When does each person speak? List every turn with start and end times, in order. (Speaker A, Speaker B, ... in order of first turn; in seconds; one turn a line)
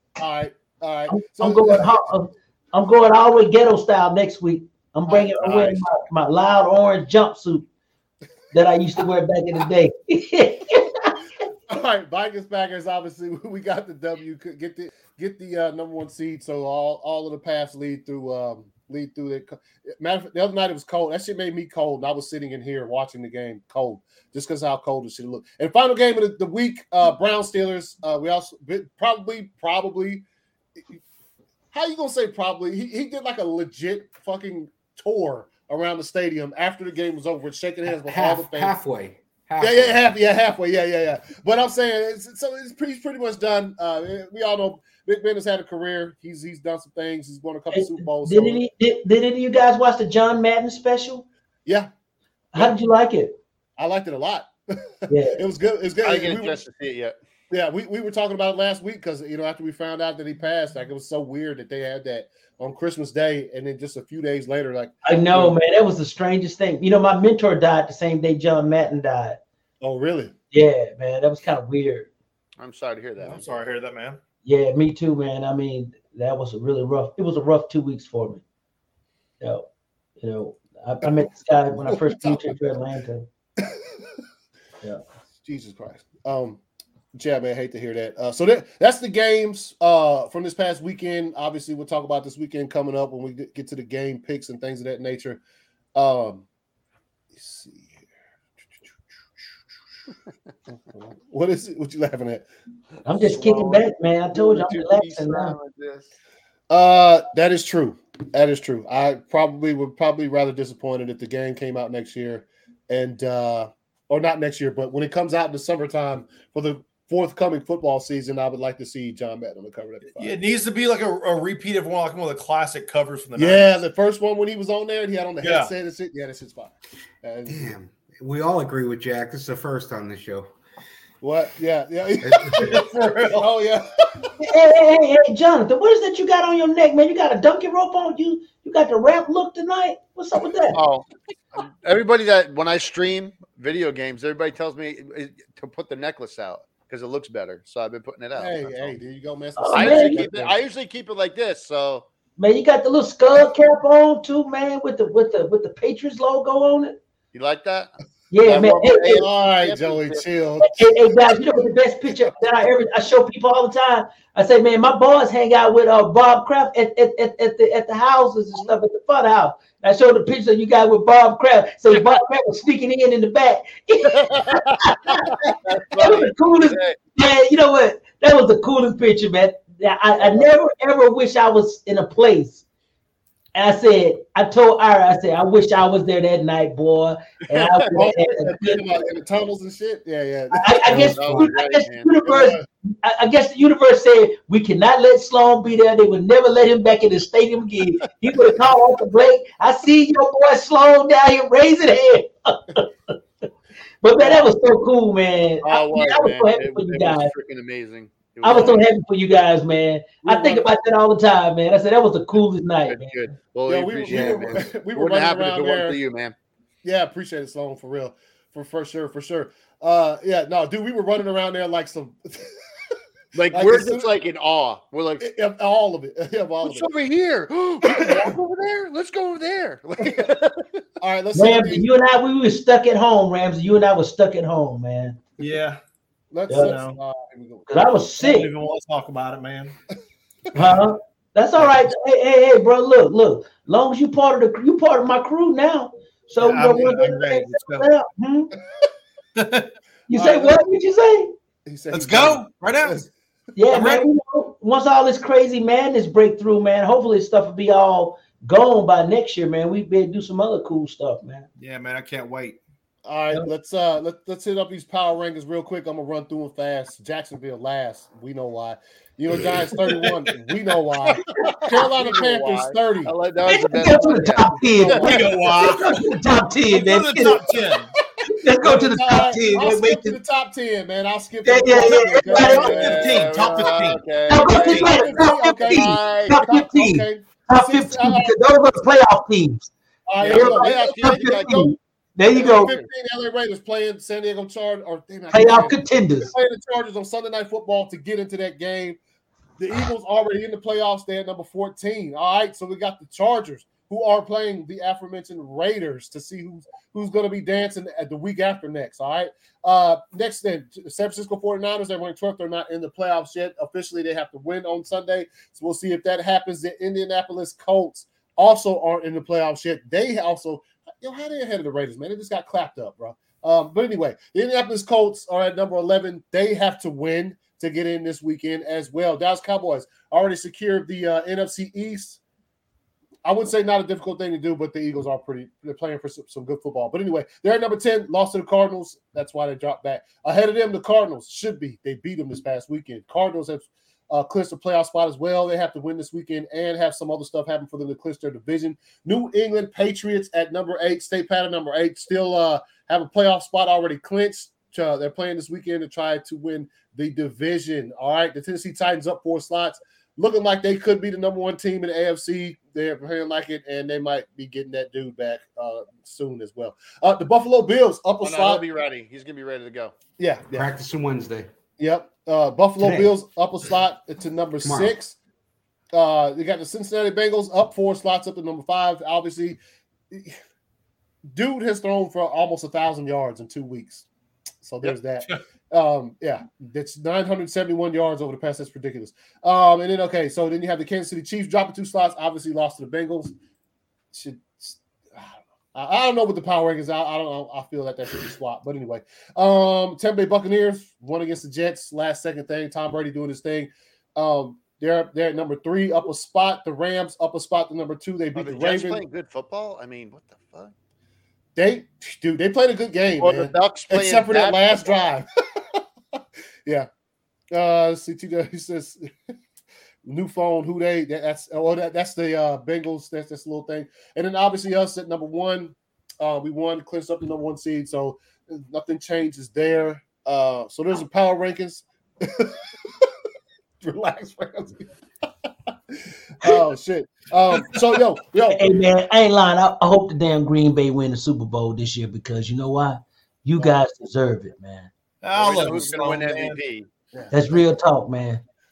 Speaker A: 0.2-2.0
Speaker B: 1.1-7.7
Speaker A: 5.1-5.8
Speaker B: 8.5-11.1
Speaker A: 11.7-30.2
Speaker A: 31.7-38.7
Speaker C: 37.9-40.1
Speaker A: 39.6-48.6
Speaker B: 47.7-51.2
Speaker B: 52.5-53.4
Speaker A: 53.8-54.5
Speaker B: 55.1-55.4
Speaker A: 55.3-56.6
Speaker D: 56.0-57.1
Speaker A: 57.5-65.6
Speaker B: 65.0-69.4
Speaker A: 69.8-70.3
Speaker B: 70.5-72.1
Speaker D: 72.6-73.5
Speaker E: 73.2-74.2
Speaker B: 74.4-78.4
Speaker B: 79.4-79.7
Speaker B: 80.2-83.3
Speaker A: 81.7-82.7
Speaker A: 83.6-83.8
Speaker A: 85.4-86.6
Speaker A: 87.2-95.4
Speaker A: 95.9-96.5
Speaker A: 97.3-98.0
Speaker A: 100.7-102.5
Speaker B: 103.0-105.5
Speaker D: 103.1-106.1
Speaker A: 106.7-120.3
Speaker E: 120.2-123.7
Speaker A: 123.3-127.7
Speaker E: 125.4-125.7
Speaker C: 127.5-130.5
Speaker A: 131.2-134.3
Speaker C: 132.2-132.7
Speaker E: 132.5-133.5
Speaker B: 134.4-140.8
Speaker D: 140.7-148.9
Speaker A: 148.3-150.6
Speaker B: 149.6-150.3
Speaker D: 149.7-152.1
Speaker B: 152.4-157.0
Speaker D: 157.3-160.2
Speaker B: 158.3-159.2
Speaker A: 159.1-160.9
Speaker B: 160.6-182.6
Speaker D: 174.2-174.7
Speaker D: 175.5-177.0
Speaker B: 183.5-188.8
Speaker A: 187.9-190.9
Speaker B: 190.5-202.9
Speaker C: 190.9-191.5
Speaker D: 190.9-192.2
Speaker A: 192.3-192.6
Speaker B: 204.0-207.3
Speaker A: 204.2-204.4
Speaker D: 205.6-208.8
Speaker B: 208.4-213.3
Speaker A: 210.2-210.7
Speaker D: 212.9-216.3
Speaker A: 213.7-216.0
Speaker A: 216.8-222.5
Speaker D: 223.3-225.2
Speaker A: 223.5-224.1
Speaker A: 225.2-226.9
Speaker D: 226.6-230.6
Speaker A: 227.8-228.3
Speaker A: 230.0-230.3
Speaker A: 231.0-231.9
Speaker B: 231.3-235.2
Speaker E: 235.4-235.8
Speaker A: 236.3-237.9
Speaker B: 236.5-236.8
Speaker E: 236.6-237.0
Speaker B: 237.7-238.5
Speaker E: 238.2-239.7
Speaker B: 240.5-248.5
Speaker E: 246.4-247.9
Speaker E: 249.3-249.7
Speaker B: 250.1-251.3
Speaker A: 250.1-250.6
Speaker A: 251.7-253.1
Speaker E: 251.9-253.0
Speaker B: 253.5-261.4
Speaker E: 253.7-254.1
Speaker E: 261.6-262.6
Speaker A: 263.0-273.1
Speaker E: 269.4-270.3
Speaker D: 271.5-275.2
Speaker B: 273.4-277.4
Speaker A: 274.7-275.5
Speaker E: 275.0-276.0
Speaker E: 276.7-277.9
Speaker B: 278.3-280.2
Speaker A: 278.6-283.2
Speaker B: 281.4-282.8
Speaker E: 281.9-284.0
Speaker D: 282.4-286.4
Speaker B: 284.3-289.7
Speaker A: 284.5-288.4
Speaker A: 290.1-291.6
Speaker D: 290.2-291.7
Speaker B: 290.3-292.7
Speaker A: 292.3-299.0
Speaker D: 292.4-292.9
Speaker B: 295.3-296.3
Speaker A: 299.6-332.2
Speaker A: 333.2-368.6
Speaker D: 368.2-369.9
Speaker A: 370.2-370.7
Speaker C: 370.5-371.5
Speaker A: 371.8-375.2
Speaker C: 372.8-373.1
Speaker C: 374.6-374.9
Speaker A: 375.9-379.6
Speaker A: 380.1-380.4
Speaker A: 381.3-384.1
Speaker A: 384.6-393.3
Speaker A: 394.1-409.0
Speaker D: 408.3-410.7
Speaker A: 411.6-415.8
Speaker D: 413.2-415.0
Speaker A: 417.5-419.1
Speaker A: 420.0-433.1
Speaker A: 433.8-434.9
Speaker A: 435.9-438.7
Speaker B: 438.5-444.9
Speaker E: 445.2-446.6
Speaker D: 445.3-446.9
Speaker A: 447.1-447.6
Speaker B: 447.3-448.4